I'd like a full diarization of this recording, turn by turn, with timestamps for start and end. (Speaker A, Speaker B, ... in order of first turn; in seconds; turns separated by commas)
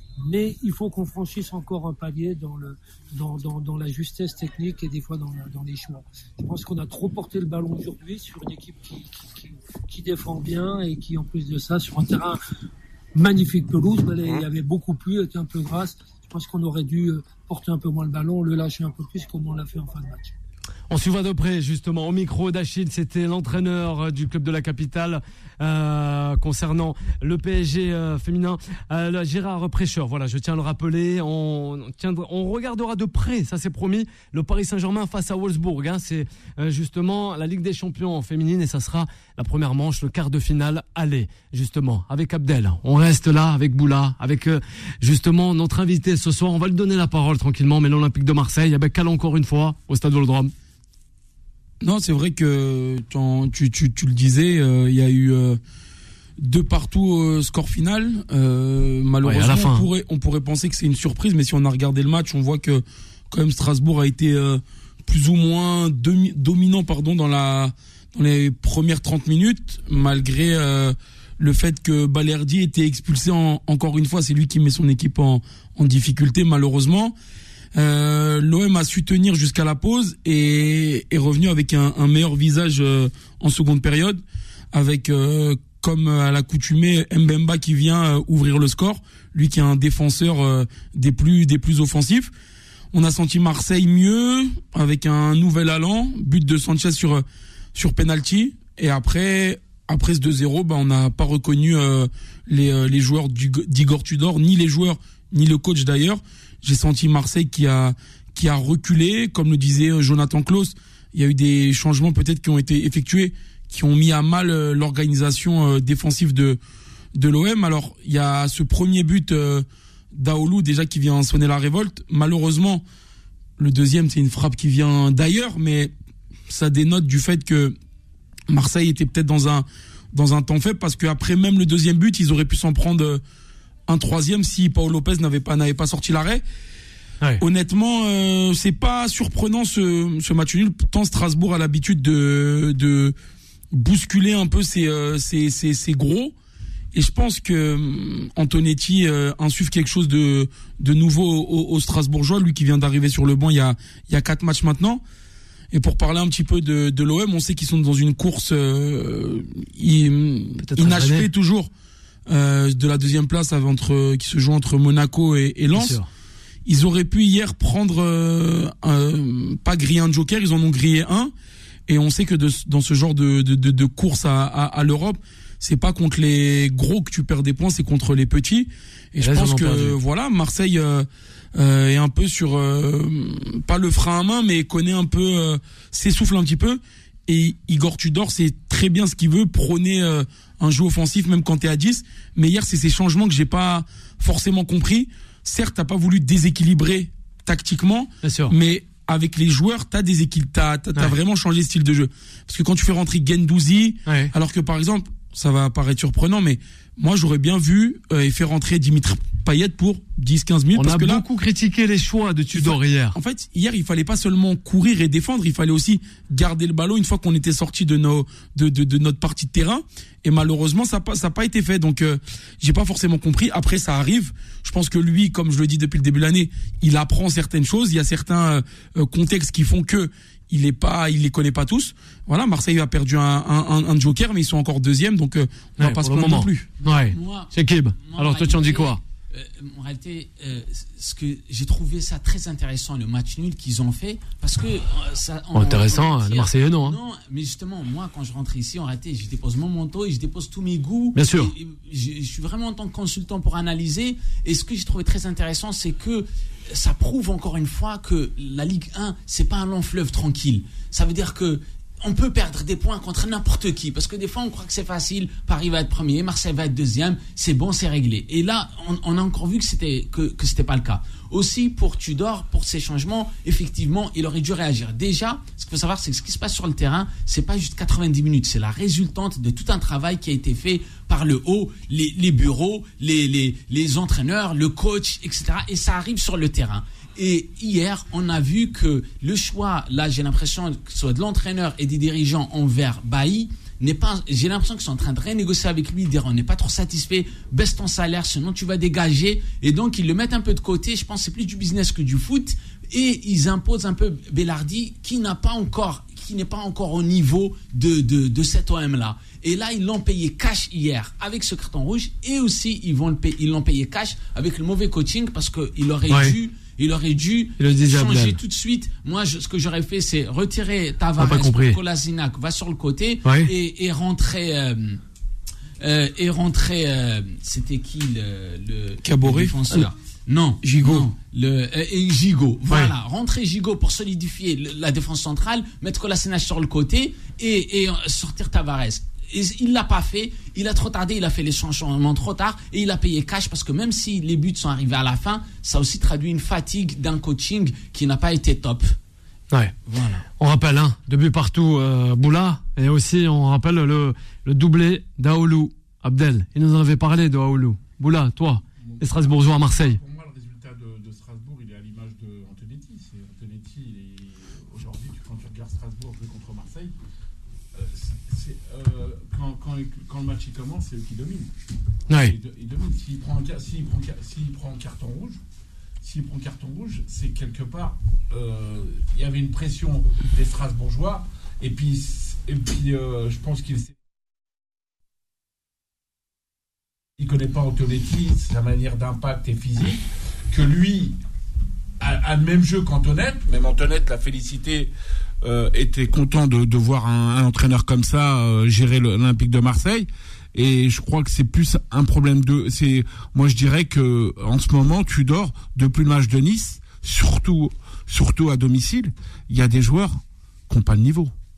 Speaker A: 0.2-12.4, Speaker A: 13.1-20.3, Speaker B: 20.9-50.5, Speaker C: 51.8-55.6, Speaker C: 56.4-77.1, Speaker B: 59.2-59.9, Speaker C: 77.7-84.2, Speaker C: 84.7-92.3, Speaker C: 92.9-97.2, Speaker C: 97.7-116.6, Speaker C: 117.2-122.8, Speaker C: 123.6-125.9, Speaker C: 126.5-127.7, Speaker C: 128.5-133.2, Speaker C: 133.9-136.4, Speaker C: 137.4-143.1, Speaker C: 143.7-146.3, Speaker C: 146.9-155.0, Speaker C: 155.7-161.7, Speaker B: 160.6-161.3, Speaker C: 162.3-166.0, Speaker B: 165.7-166.1, Speaker C: 166.7-171.3, Speaker C: 171.9-211.2, Speaker B: 179.2-180.0, Speaker B: 198.2-198.5, Speaker B: 210.7-213.2, Speaker C: 212.5-236.7, Speaker B: 235.8-239.0, Speaker D: 236.8-325.0, Speaker B: 245.5-246.9, Speaker B: 251.1-251.5, Speaker B: 317.6-318.4, Speaker B: 321.2-321.8, Speaker B: 323.2-323.5, Speaker D: 325.8-348.9, Speaker C: 329.0-329.9, Speaker C: 330.6-331.1, Speaker D: 349.9-350.2, Speaker B: 350.4-360.0, Speaker E: 358.8-366.9, Speaker E: 367.7-371.5, Speaker B: 372.1-372.3, Speaker E: 372.1-375.4, Speaker E: 376.0-383.9, Speaker E: 387.2-391.2, Speaker E: 392.0-394.9, Speaker E: 395.4-411.3